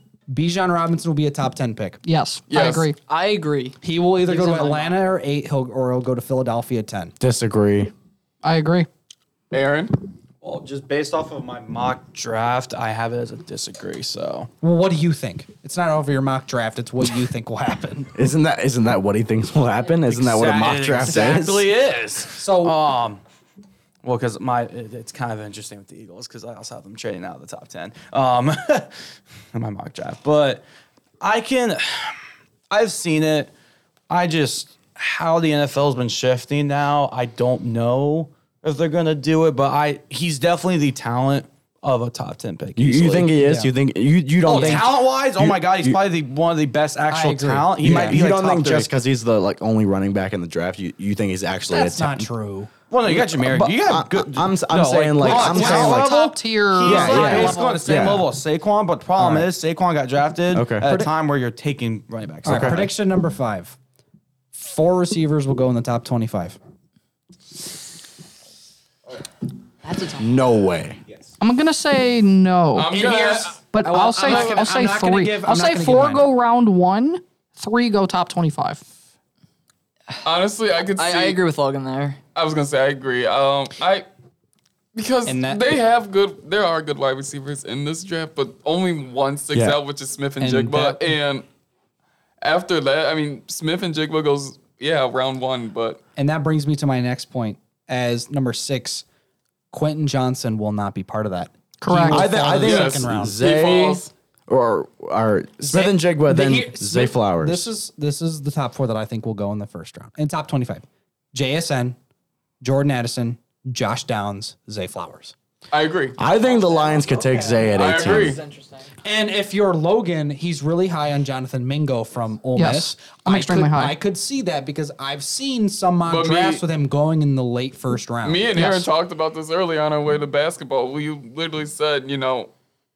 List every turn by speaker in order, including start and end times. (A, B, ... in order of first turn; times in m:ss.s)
0:00.3-0:02.0 A
0:02.0-0:03.0 B
0:02.5-0:02.9 C
0:03.0-0:04.9 D
0:03.8-0:07.1 A
0:07.2-0:07.9 E
0:08.4-0:08.9 B
0:09.5-0:10.0 C
0:10.4-0:14.5 F
0:14.6-0:18.1 A
0:18.1-0:21.6 E
0:20.0-0:23.2 F
0:21.0-0:21.7 A
0:22.3-0:22.8 A
0:24.0-0:28.9 F
0:29.5-0:30.6 F
0:31.2-0:32.2 F
0:32.7-0:33.5 F
0:34.1-0:43.3 F
0:42.8-0:46.0 E
0:43.3-0:43.7 A
0:44.4-0:48.9 F
0:44.4-0:44.9 A
0:47.1-0:48.7 A
0:47.8-0:52.3 E
0:51.7-0:52.7 A
0:52.9-1:02.9 F
0:53.0-0:56.2 E
0:55.2-0:56.0 A
0:55.3-0:57.8 B
0:56.8-0:58.3 E
0:56.9-0:58.1 A
1:00.5-1:00.9 E
1:00.8-1:01.1 A
1:02.4-1:02.9 E
1:02.4-1:03.8 A
1:04.5-1:06.6 A
1:09.8-1:10.4 D
1:10.2-1:11.0 E
1:11.4-1:13.0 B
1:12.7-1:13.6 C
1:12.9-1:16.3 A
1:13.7-1:18.8 B
1:20.2-1:21.4 C
1:21.0-1:22.2 D
1:22.3-1:24.0 C
1:24.9-1:31.4 C
1:25.2-1:25.7 A
1:29.5-1:29.8 E
1:30.4-1:31.0 A
1:32.4-1:36.0 C
1:36.2-1:39.0 A
1:39.7-1:43.4 A
1:41.8-1:42.2 B
1:42.1-1:47.7 E
1:42.6-1:44.1 C
1:45.6-1:52.0 A
1:52.6-1:55.3 A
1:55.7-1:56.2 C
1:56.2-1:58.4 E
1:56.4-1:58.9 D
1:57.7-1:58.4 C
1:59.0-2:08.5 A
2:02.6-2:04.0 B
2:06.0-2:06.6 C
2:08.2-2:12.5 C
2:08.5-2:08.9 B